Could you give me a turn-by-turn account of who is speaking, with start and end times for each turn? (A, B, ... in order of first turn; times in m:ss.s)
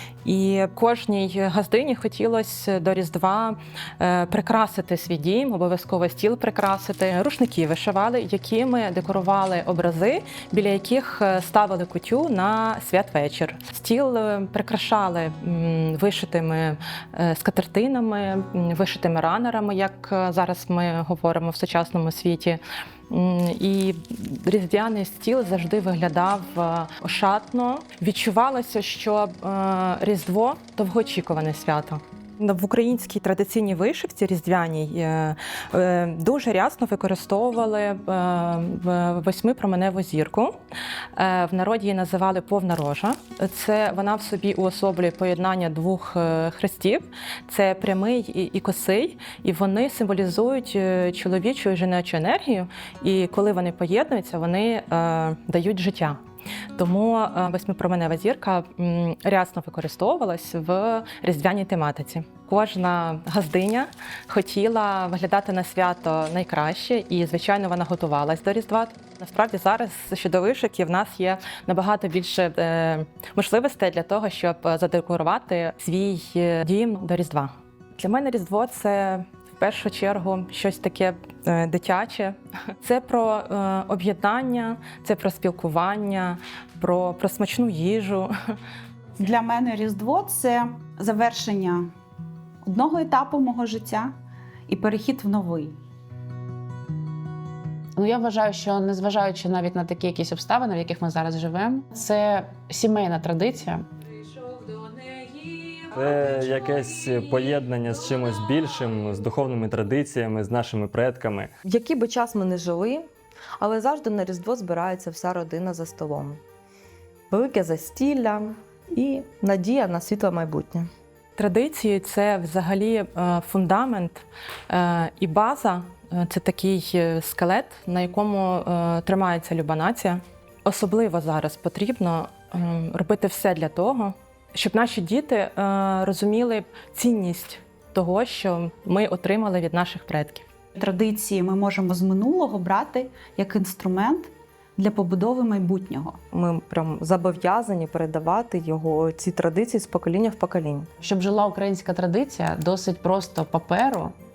0:00.2-0:40.6 A
0:41.1-0:56.2 A
0:56.8-1:28.6 A
1:29.2-1:31.9 B
1:32.6-1:34.1 B
1:34.7-1:35.8 B
1:38.0-1:43.8 C
1:45.9-1:51.5 D
1:51.6-1:53.0 E
1:53.6-1:56.4 E
1:57.3-2:00.9 E
2:01.4-2:20.5 A
2:20.8-2:26.2 B
2:26.3-2:30.9 E
2:31.0-2:34.1 C